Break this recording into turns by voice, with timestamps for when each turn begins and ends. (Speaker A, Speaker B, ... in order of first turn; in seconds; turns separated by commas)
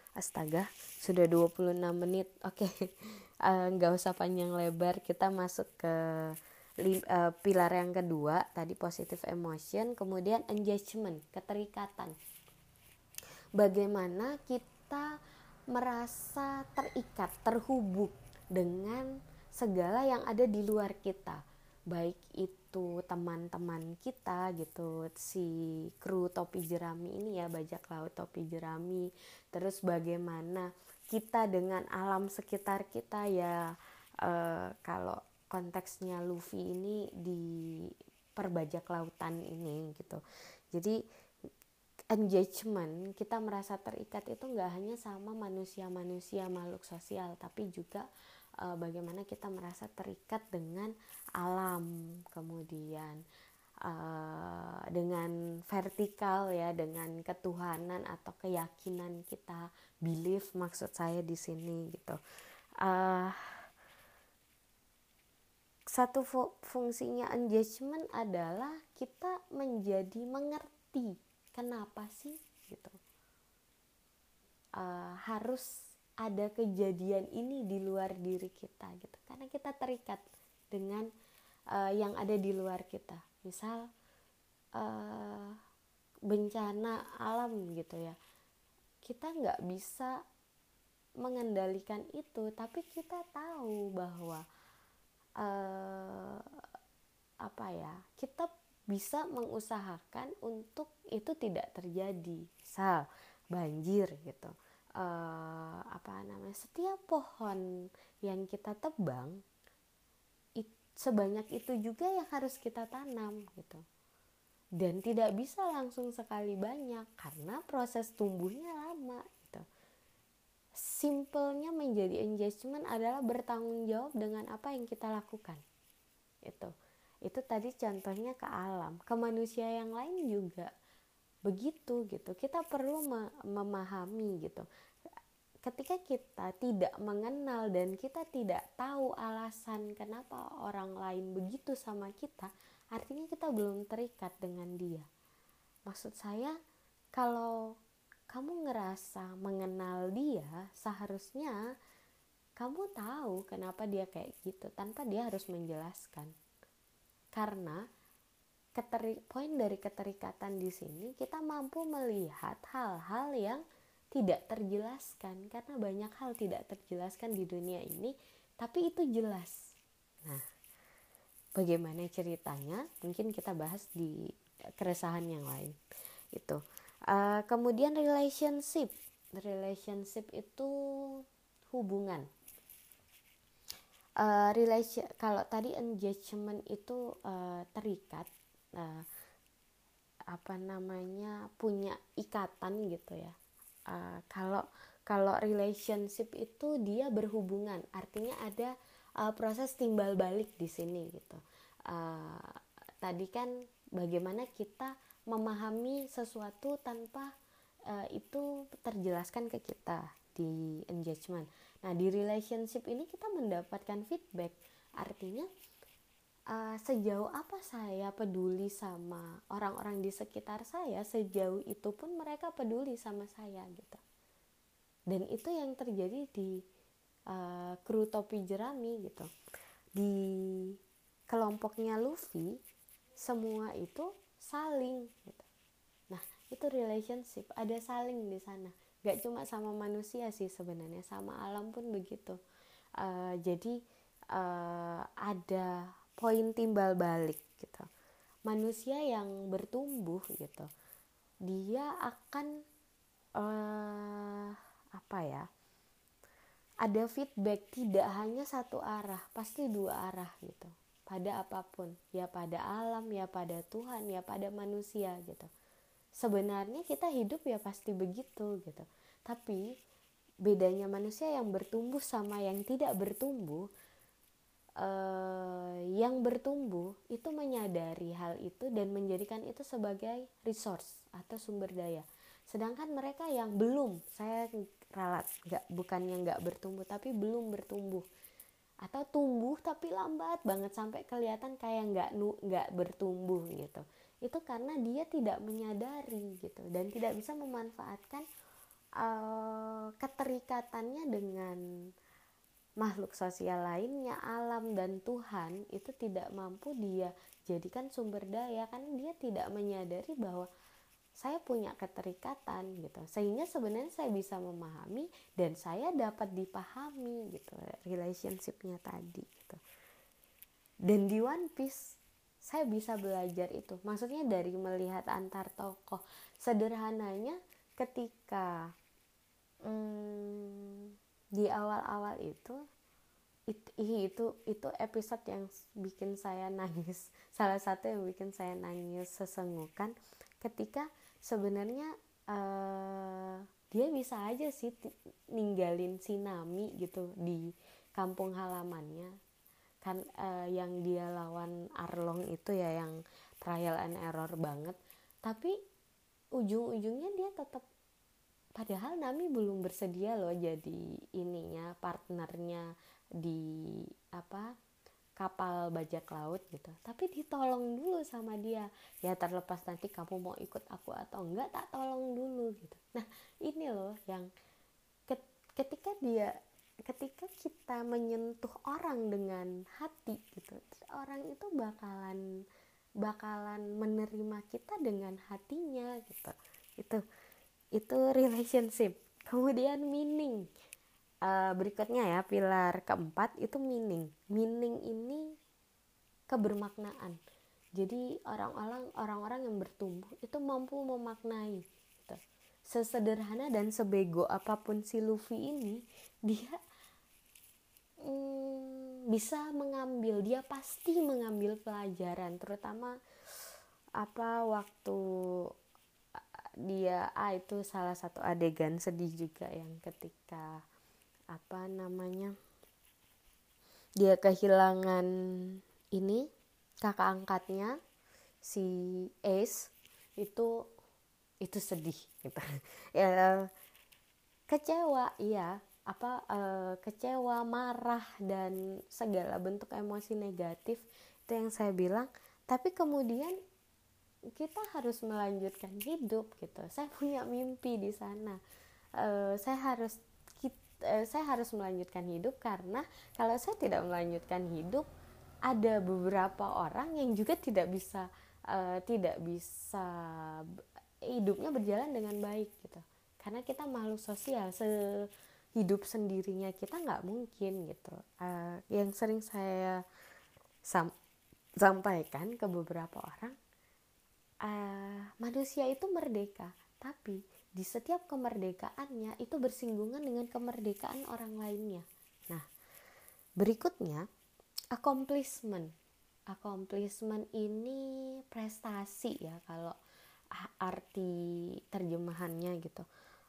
Speaker A: 0.2-12.2, Speaker A: 13.6-15.0, Speaker A: 15.7-21.4, Speaker A: 21.9-40.2, Speaker A: 42.1-48.1, Speaker A: 48.6-53.2, Speaker A: 53.9-62.2, Speaker A: 62.8-63.6, Speaker A: 65.9-73.0, Speaker A: 74.8-75.7, Speaker A: 76.2-81.1, Speaker A: 81.7-83.8, Speaker A: 84.8-85.6, Speaker A: 86.3-88.2, Speaker A: 89.0-90.2, Speaker A: 91.2-94.4, Speaker A: 95.4-96.4, Speaker A: 97.5-107.7, Speaker A: 108.2-109.4, Speaker A: 110.6-113.8, Speaker A: 114.8-119.6, Speaker A: 120.8-125.6, Speaker A: 126.5-126.7, Speaker A: 127.2-130.7, Speaker A: 131.5-134.7, Speaker A: 135.7-145.1, Speaker A: 145.9-146.6, Speaker A: 147.2-147.6, Speaker A: 148.3-151.6, Speaker A: 152.6-156.3, Speaker A: 157.4-157.8, Speaker A: 158.8-163.6, Speaker A: 164.2-169.7, Speaker A: 171.6-174.2, Speaker A: 174.8-175.8, Speaker A: 176.3-181.2, Speaker A: 181.7-182.3, Speaker A: 184.2-189.1, Speaker A: 190.3-193.3, Speaker A: 193.9-198.7, Speaker A: 199.2-207.3, Speaker A: 207.9-215.5, Speaker A: 216.5-224.0, Speaker A: 225.1-226.6, Speaker A: 227.3-229.3, Speaker A: 230.0-230.8, Speaker A: 231.3-232.6, Speaker A: 233.2-235.5, Speaker A: 236.1-242.4, Speaker A: 243.0-243.8, Speaker A: 244.3-247.9, Speaker A: 248.5-250.7, Speaker A: 251.5-252.5, Speaker A: 253.4-255.4, Speaker A: 256.8-265.5, Speaker A: 266.2-269.6, Speaker A: 270.4-273.7, Speaker A: 274.8-288.1, Speaker A: 288.8-298.2, Speaker A: 299.0-301.6, Speaker A: 302.8-310.5, Speaker A: 311.2-319.6, Speaker A: 320.9-328.6, Speaker A: 329.7-332.6, Speaker A: 333.5-349.1, Speaker A: 349.8-355.6, Speaker A: 356.4-357.6, Speaker A: 358.6-362.7, Speaker A: 363.2-364.5, Speaker A: 365.2-374.3, Speaker A: 375.1-376.3, Speaker A: 376.9-382.2, Speaker A: 383.0-387.0, Speaker A: 387.8-390.4, Speaker A: 391.2-395.2, Speaker A: 396.3-397.2, Speaker A: 397.8-402.2, Speaker A: 402.7-406.6, Speaker A: 408.0-413.0, Speaker A: 414.0-415.0, Speaker A: 416.2-420.6, Speaker A: 421.3-422.3, Speaker A: 424.0-426.3, Speaker A: 426.8-427.8, Speaker A: 428.4-430.5, Speaker A: 431.4-433.5, Speaker A: 434.5-443.4, Speaker A: 444.4-448.4, Speaker A: 449.0-454.9, Speaker A: 455.5-460.4, Speaker A: 461.1-465.1, Speaker A: 465.6-469.8, Speaker A: 471.6-473.4, Speaker A: 474.4-482.4, Speaker A: 483.4-484.1, Speaker A: 484.7-485.7, Speaker A: 486.3-489.7, Speaker A: 490.4-491.2, Speaker A: 491.7-492.9